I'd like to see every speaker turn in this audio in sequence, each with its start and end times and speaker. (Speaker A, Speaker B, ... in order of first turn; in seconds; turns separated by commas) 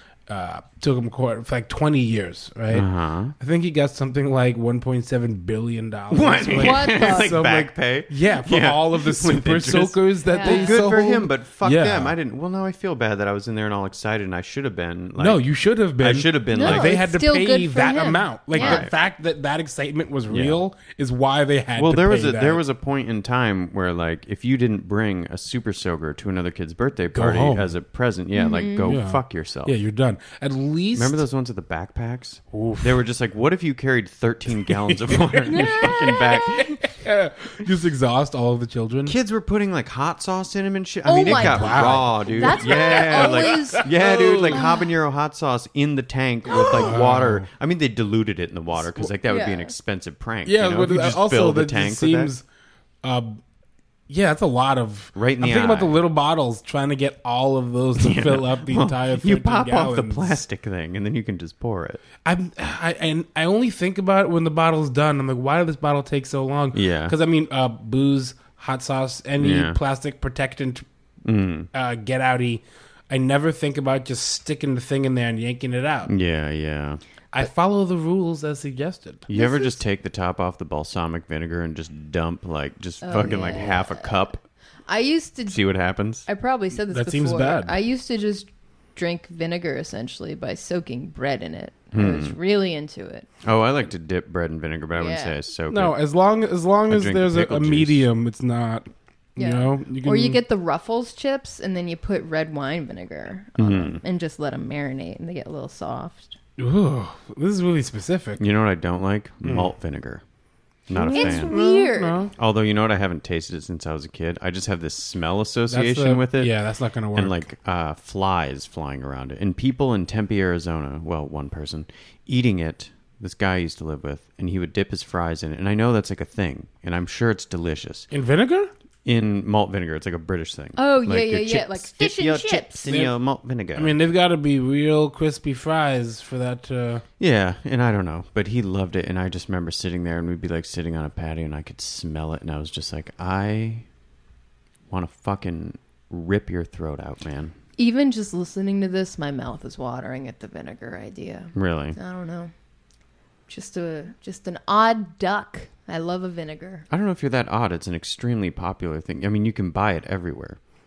Speaker A: 0.3-2.9, Speaker B: 2.7-3.3, Speaker A: 3.4-12.2, Speaker B: 6.1-16.9, Speaker C: 6.5-7.4, Speaker C: 10.3-11.2, Speaker A: 15.2-22.6, Speaker C: 16.5-18.9, Speaker B: 18.6-18.9, Speaker B: 20.3-20.6, Speaker B: 21.8-29.8, Speaker A: 27.1-27.7, Speaker C: 28.3-29.0, Speaker A: 28.9-31.2, Speaker B: 30.9-36.8, Speaker A: 32.5-33.0, Speaker A: 34.6-39.1, Speaker C: 35.5-36.6, Speaker B: 39.0-52.3, Speaker C: 41.0-43.9, Speaker A: 41.3-44.6, Speaker C: 44.5-44.9, Speaker A: 46.5-47.5, Speaker C: 46.5-46.9, Speaker C: 49.2-49.7, Speaker A: 50.4-52.4, Speaker A: 53.0-53.4, Speaker A: 54.1-60.4, Speaker B: 55.1-56.0, Speaker B: 58.0-62.0, Speaker A: 62.2-70.8, Speaker B: 66.7-67.1, Speaker B: 69.4-69.8, Speaker B: 71.2-71.7, Speaker A: 71.7-76.1, Speaker B: 76.0-77.0, Speaker A: 77.3-79.2, Speaker B: 79.3-84.4, Speaker C: 79.3-79.8, Speaker C: 83.0-84.3, Speaker C: 84.9-85.6, Speaker B: 85.5-86.3, Speaker C: 86.2-93.3, Speaker A: 86.9-87.8, Speaker B: 91.9-92.4, Speaker B: 93.4-96.0, Speaker C: 95.0-95.3, Speaker A: 95.7-100.4, Speaker B: 96.9-98.1, Speaker C: 99.3-106.4, Speaker B: 103.6-104.0, Speaker A: 106.6-108.4, Speaker B: 108.4-110.2, Speaker A: 109.4-109.7, Speaker B: 110.9-111.6, Speaker A: 110.9-112.3, Speaker C: 111.0-112.2, Speaker B: 112.3-116.6, Speaker A: 115.7-117.4, Speaker B: 117.1-128.1, Speaker A: 128.1-128.7, Speaker B: 129.0-134.1, Speaker C: 130.8-133.0, Speaker A: 132.9-133.1, Speaker A: 133.7-137.0, Speaker B: 137.2-143.8, Speaker B: 144.9-147.5, Speaker C: 147.8-152.5, Speaker B: 151.5-152.0, Speaker C: 153.5-156.8, Speaker B: 156.9-160.6